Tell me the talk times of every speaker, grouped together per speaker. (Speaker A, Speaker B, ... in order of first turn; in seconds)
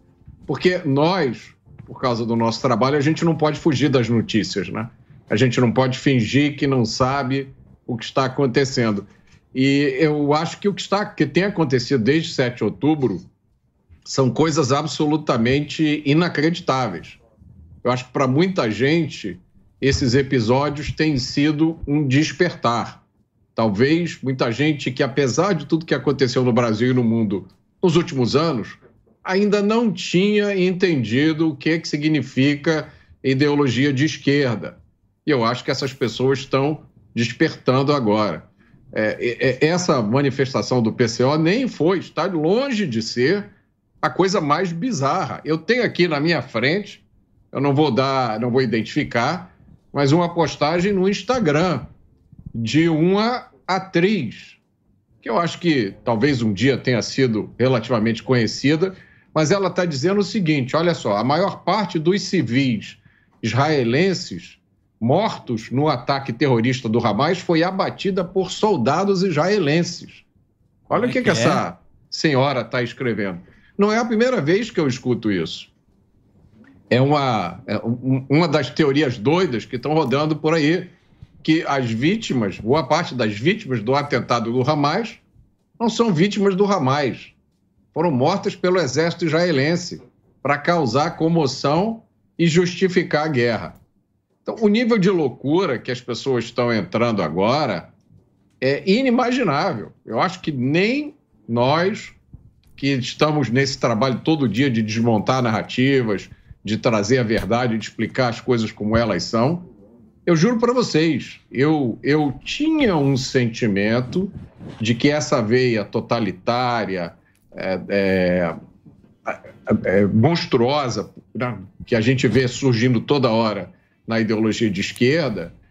Speaker A: 0.5-13.2, 14.0-17.2, 17.8-23.0, 23.5-43.5, 44.0-51.9, 52.5-54.6, 55.2-70.2, 70.9-75.7, 76.9-80.9, 81.4-85.2, 85.8-87.3, 87.9-93.8, 94.4-97.9, 98.6-102.2, 102.8-109.7, 110.2-118.5, 119.2-125.5